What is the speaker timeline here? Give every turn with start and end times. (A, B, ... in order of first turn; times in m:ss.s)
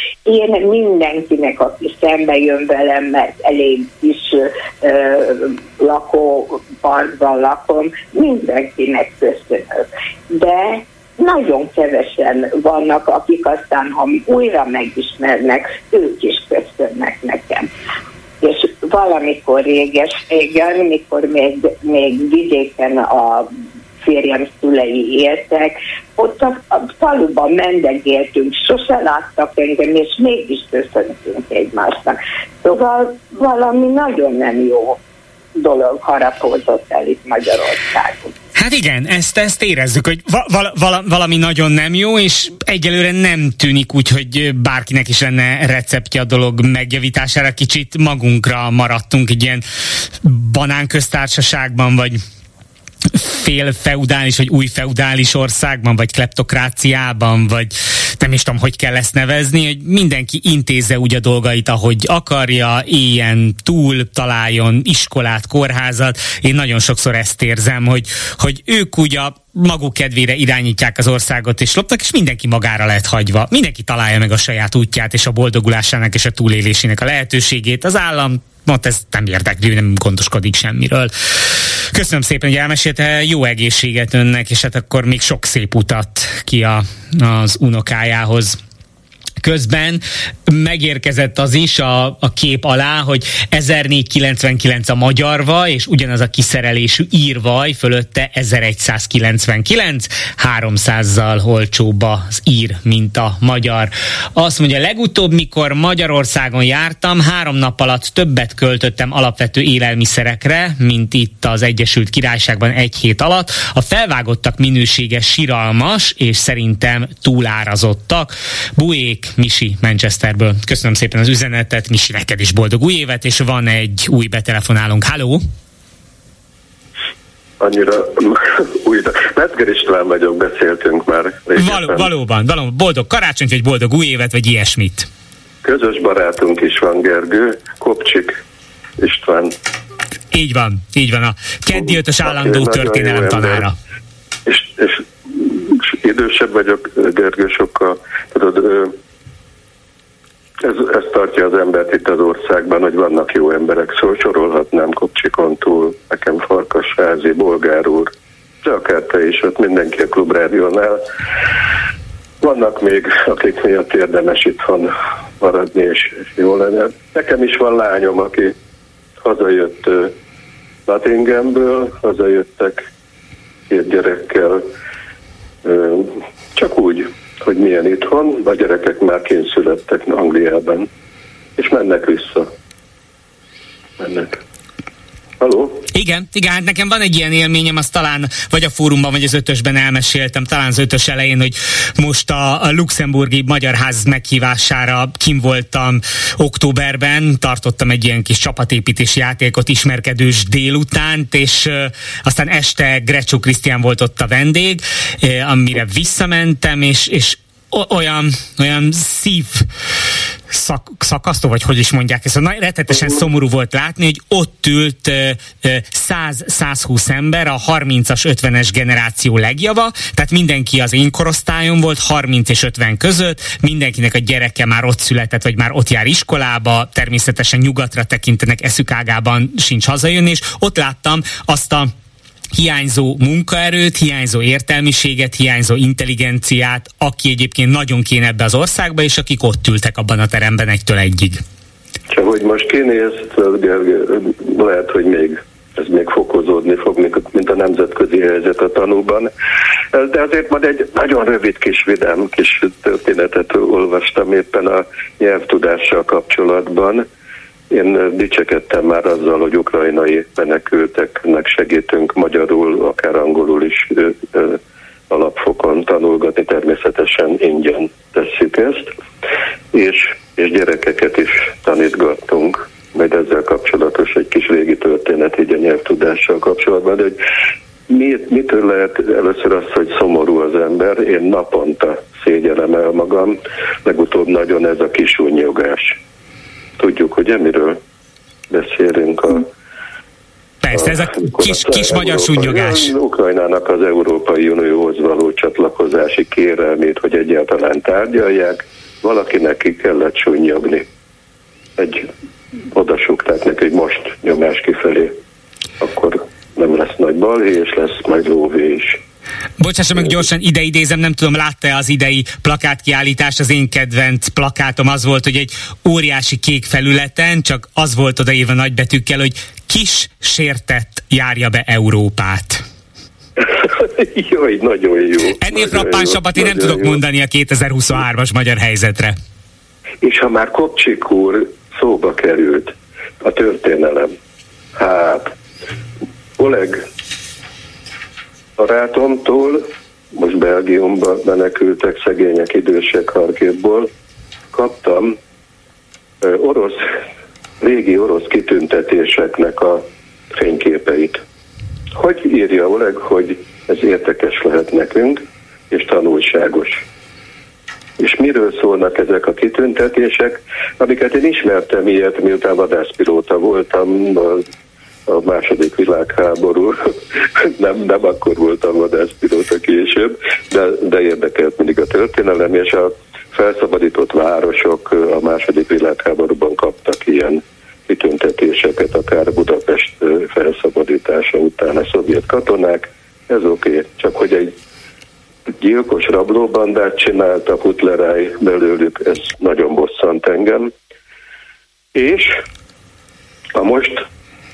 0:00.3-0:17.7 A
0:18.4-0:35.0 A
0:35.6-0:38.3 A
0:38.6-0:49.6 B
0:50.2-0:52.2 B
0:53.1-1:21.1 B
1:21.9-1:28.6 B
1:29.4-2:05.4 B
2:07.6-2:12.1 C
2:11.6-2:15.1 B
2:15.6-2:18.4 C
2:19.0-2:19.6 C
2:20.3-2:23.7 B
2:21.7-2:23.7 C
2:24.5-2:29.0 C
2:30.6-2:38.1 C
2:38.6-2:41.0 C
2:42.4-2:48.6 C
2:49.2-2:50.1 C
2:50.9-2:52.9 C
2:53.7-2:54.6 C
2:55.6-3:00.9 C
3:01.6-3:02.5 C
3:04.0-3:04.4 C
3:05.4-3:05.8 C
3:05.9-3:29.6 B
3:30.5-3:51.9 B
3:52.5-4:01.4 B
4:02.1-4:09.3 C
4:09.9-4:17.0 C
4:17.7-4:28.9 C
4:29.7-4:37.2 C
4:37.9-4:46.0 C
4:46.8-4:47.8 C
4:48.5-4:49.5 C
4:50.6-4:52.9 B
4:50.7-5:00.8 C
5:01.8-5:02.1 C
5:02.7-5:05.2 C
5:05.8-5:09.0 C
5:09.6-5:22.6 B
5:23.4-5:27.0 C
5:25.4-5:29.2 B
5:30.0-5:34.1 C
5:34.8-5:35.3 C
5:36.4-5:36.8 C
5:38.6-5:43.9 C
5:44.5-5:45.2 C
5:46.2-5:46.8 C
5:47.6-5:51.2 C
5:51.9-5:56.8 C
5:58.0-6:04.4 C
6:05.1-6:06.8 C
6:07.4-6:24.5 C
6:25.5-6:30.7 C
6:31.9-6:32.4 C
6:33.5-6:34.0 C